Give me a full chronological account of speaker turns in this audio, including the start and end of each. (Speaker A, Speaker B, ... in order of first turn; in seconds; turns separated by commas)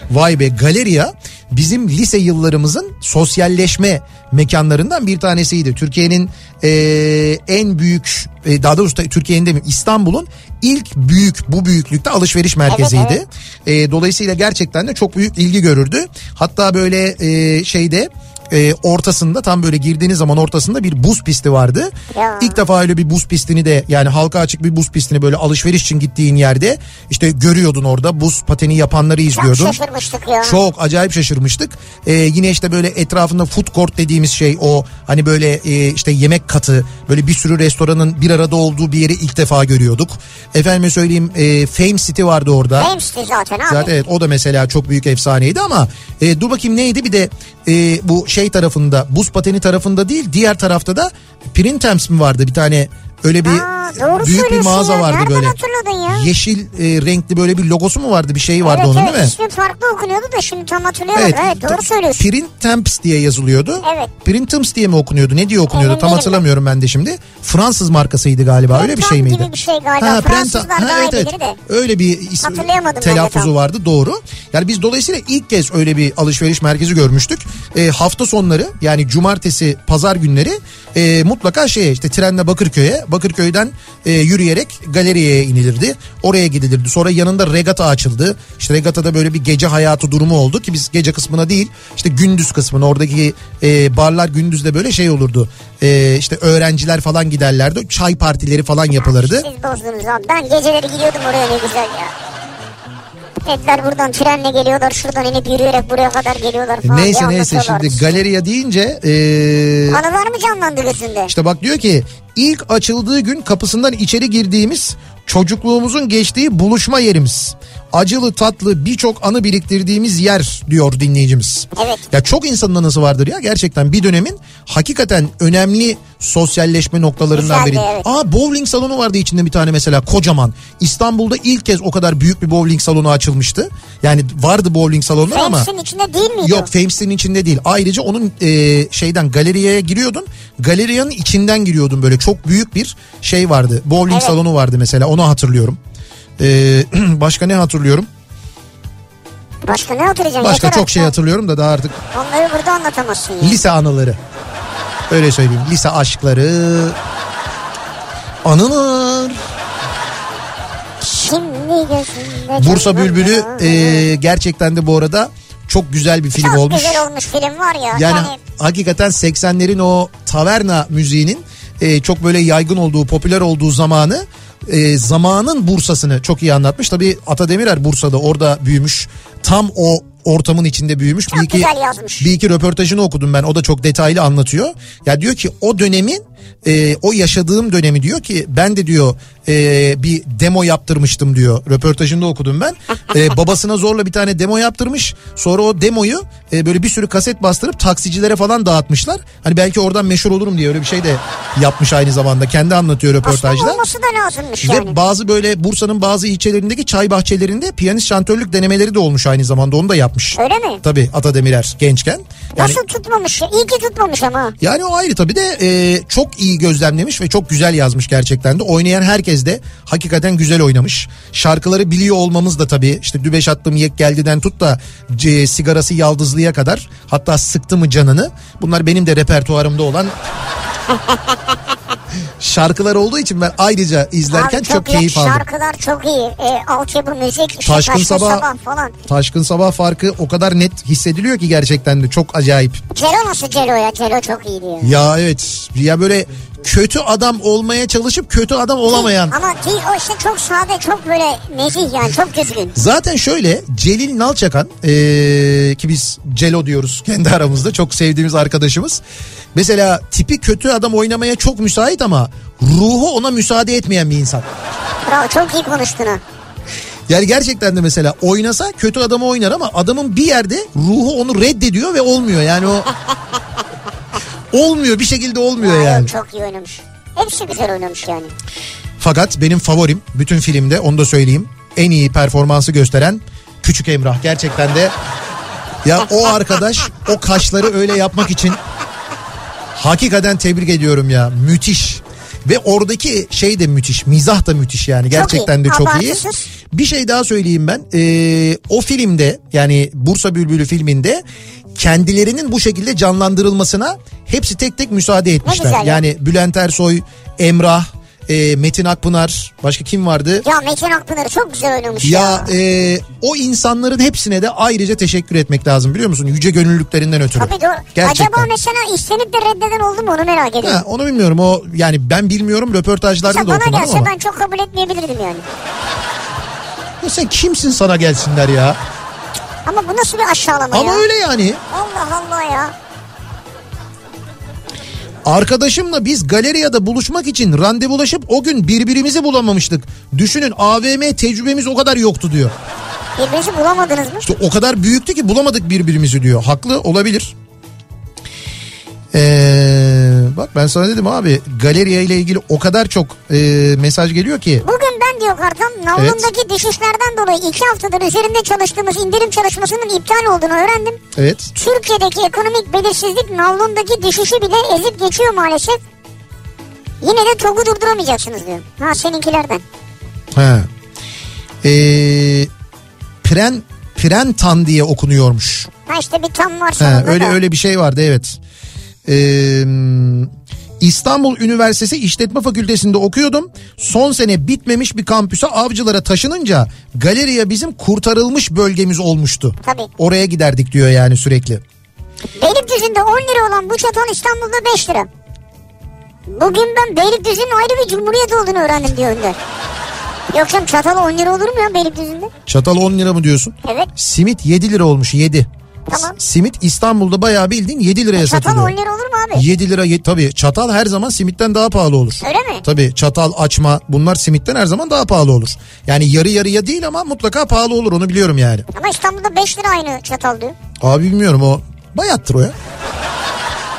Speaker A: 0.1-29.8, Speaker B: 12.7-13.2, Speaker B: 22.1-22.6, Speaker B: 29.3-30.6, Speaker A: 30.4-42.9, Speaker B: 42.8-43.9, Speaker A: 43.7-55.5, Speaker B: 53.4-56.3, Speaker A: 56.1-59.3, Speaker B: 58.6-62.2, Speaker A: 61.1-69.5, Speaker B: 63.8-64.1, Speaker B: 65.7-66.4, Speaker B: 68.7-71.6, Speaker A: 70.0-99.5, Speaker B: 72.4-73.5, Speaker B: 99.0-102.1, Speaker B: 103.4-108.2, Speaker A: 106.8-110.0, Speaker B: 109.9-111.3, Speaker A: 111.3-135.7, Speaker B: 121.7-122.1, Speaker B: 127.3-128.1, Speaker B: 135.3-136.7, Speaker A: 136.4-145.8, Speaker B: 144.1-144.3, Speaker A: 146.4-148.1, Speaker B: 149.7-151.1, Speaker A: 150.4-152.0, Speaker B: 152.1-153.6, Speaker A: 153.4-154.2, Speaker A: 155.1-157.0, Speaker A: 158.4-159.4, Speaker B: 161.0-164.0, Speaker A: 162.6-167.1, Speaker B: 166.3-168.4, Speaker A: 167.9-203.8, Speaker B: 181.3-182.3, Speaker B: 203.2-205.0, Speaker A: 204.6-212.8, Speaker B: 210.3-210.8, Speaker B: 212.6-214.5, Speaker A: 214.6-230.1, Speaker A: 232.4-235.4, Speaker B: 234.3-238.9, Speaker A: 237.6-238.5, Speaker A: 239.1-242.8, Speaker B: 242.9-244.9, Speaker A: 244.8-249.3, Speaker B: 248.8-252.8, Speaker A: 252.7-259.0, Speaker A: 259.5-264.4, Speaker B: 265.0-266.2, Speaker A: 267.1-272.9, Speaker A: 274.5-276.1, Speaker B: 275.6-278.3, Speaker A: 279.0-284.9, Speaker A: 285.8-288.6, Speaker A: 289.7-301.2, Speaker B: 295.1-296.4, Speaker A: 301.8-310.4, Speaker B: 305.4-306.0, Speaker B: 310.4-312.5, Speaker A: 312.0-318.5, Speaker B: 317.4-320.8, Speaker A: 320.6-324.1, Speaker B: 323.2-325.4, Speaker A: 327.0-328.8, Speaker B: 329.6-331.1, Speaker A: 330.7-331.6, Speaker B: 331.7-332.7, Speaker A: 335.2-342.5, Speaker B: 343.2-344.2, Speaker A: 344.2-347.3, Speaker A: 349.1-354.6, Speaker B: 354.6-361.0, Speaker A: 355.9-356.3, Speaker A: 361.1-361.5, Speaker B: 361.5-365.8, Speaker B: 367.0-369.6, Speaker A: 370.3-370.7, Speaker A: 371.6-372.5, Speaker A: 373.2-375.7, Speaker B: 375.9-377.4, Speaker A: 376.8-378.4, Speaker A: 379.1-391.6, Speaker B: 389.6-389.9, Speaker B: 392.4-395.1, Speaker B: 396.3-399.4, Speaker B: 400.3-402.3, Speaker A: 402.5-408.7, Speaker B: 403.6-403.9, Speaker B: 405.9-406.1, Speaker B: 408.1-409.4, Speaker A: 409.3-418.7, Speaker B: 412.2-412.6, Speaker B: 418.7-420.5, Speaker A: 420.8-422.5